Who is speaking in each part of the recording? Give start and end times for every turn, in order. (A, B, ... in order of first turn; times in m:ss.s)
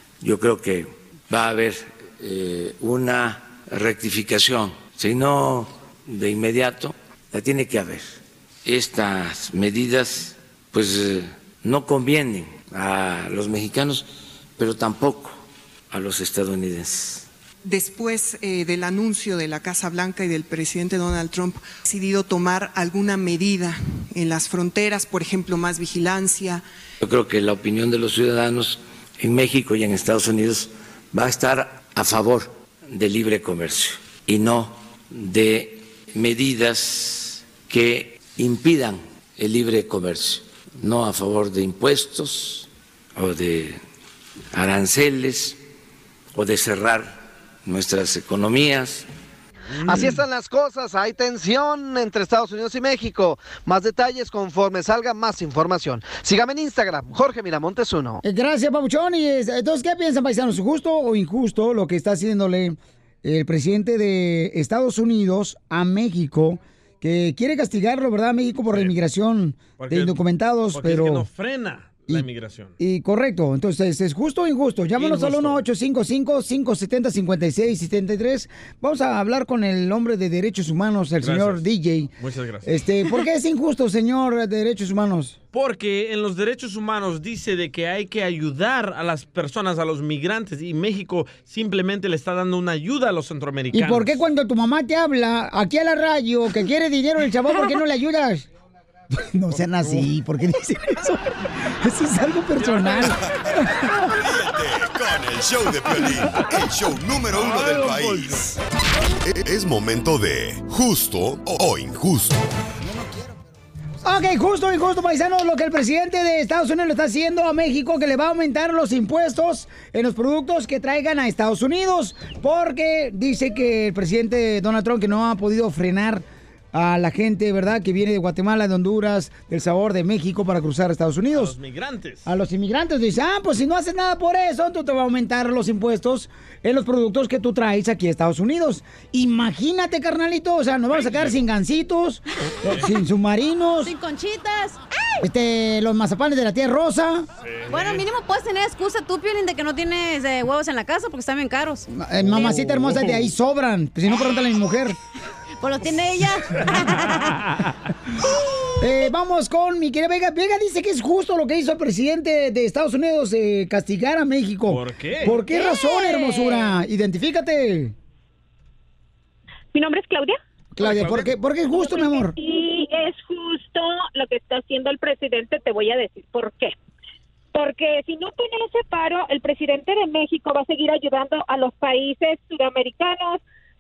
0:00.2-0:15.4 A
0:15.9-0:17.3 A
0:17.6-0:26.6 B
0:27.0-0:43.8 A
0:44.5-0:45.6 A
0:46.3-0:49.1 A
0:49.8-0:50.2 C
0:49.9-0:58.2 D
0:58.2-1:11.3 E
1:09.8-1:10.2 C
1:10.7-1:12.7 C
1:12.8-1:22.1 E
1:15.0-1:15.6 C
1:21.2-1:21.6 C
1:22.2-1:22.8 C
1:22.6-1:25.4 E
1:25.5-1:34.2 C
1:33.7-1:38.5 E
1:39.1-1:43.2 E
1:39.5-1:40.1 C
1:42.6-1:43.1 C
1:44.1-1:48.6 F
1:47.3-1:48.4 C
1:49.3-1:52.4 F
1:52.8-1:53.4 E
1:54.0-2:11.6 E
2:11.3-2:12.3 C
2:12.3-2:23.9 E
2:20.9-2:21.4 C
2:23.8-2:24.8 G
2:25.2-2:27.3 E
2:27.4-2:28.1 C
2:27.7-2:32.5 G
2:31.9-2:35.0 E
2:32.2-2:33.3 C
2:35.6-2:37.4 G
2:38.8-2:48.0 E
2:44.7-2:45.4 C
2:45.5-2:46.7 G
2:49.7-2:50.4 H
2:50.8-2:52.4 E
2:50.8-2:51.3 C
2:51.7-2:56.8 H
2:57.5-3:03.4 H